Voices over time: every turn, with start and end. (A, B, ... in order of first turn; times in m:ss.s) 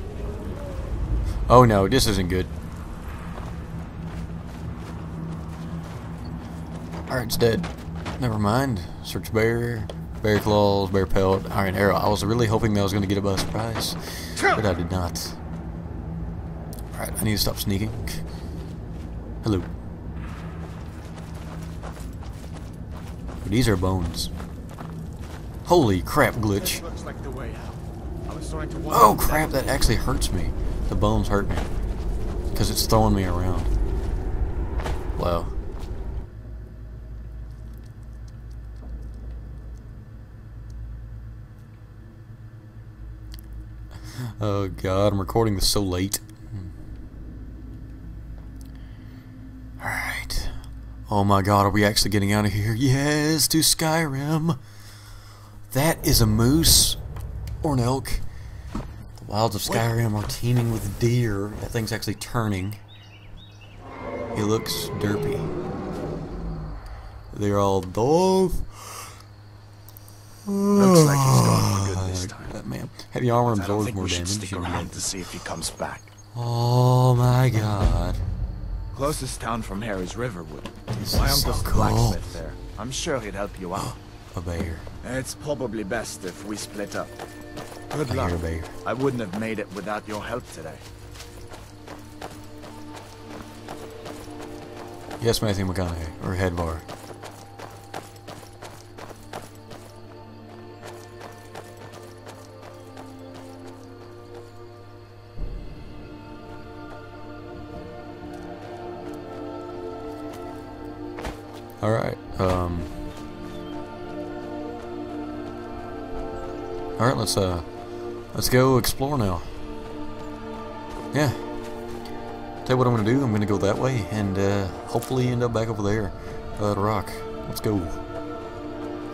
0:01.5-0:02.5 A
0:07.1-0:15.4 A
0:16.9-0:18.2 A
0:19.4-0:19.7 A
0:23.4-0:24.3 A
0:25.6-0:26.8 A
0:26.5-0:29.7 B
0:28.9-0:31.7 A
0:32.5-0:33.7 A
0:35.2-0:35.5 A
0:44.1-0:46.7 A
0:49.8-0:54.6 A
0:55.7-0:57.0 A
0:57.6-0:58.2 A
0:59.2-1:02.8 A
1:04.3-1:05.5 A
1:07.3-1:09.2 A
1:10.4-1:15.2 A
1:10.7-1:12.6 B
1:13.4-1:16.1 B
1:16.3-1:18.2 A
1:18.9-1:24.0 B
1:21.0-1:22.3 A
1:23.7-1:24.9 A
1:25.0-1:27.2 B
1:27.9-1:30.8 B
1:28.1-1:28.7 A
1:35.2-1:36.8 A
1:51.8-1:52.9 A
1:57.0-1:57.7 A
1:58.3-1:59.5 A
2:01.1-2:01.5 A
2:02.6-2:08.0 A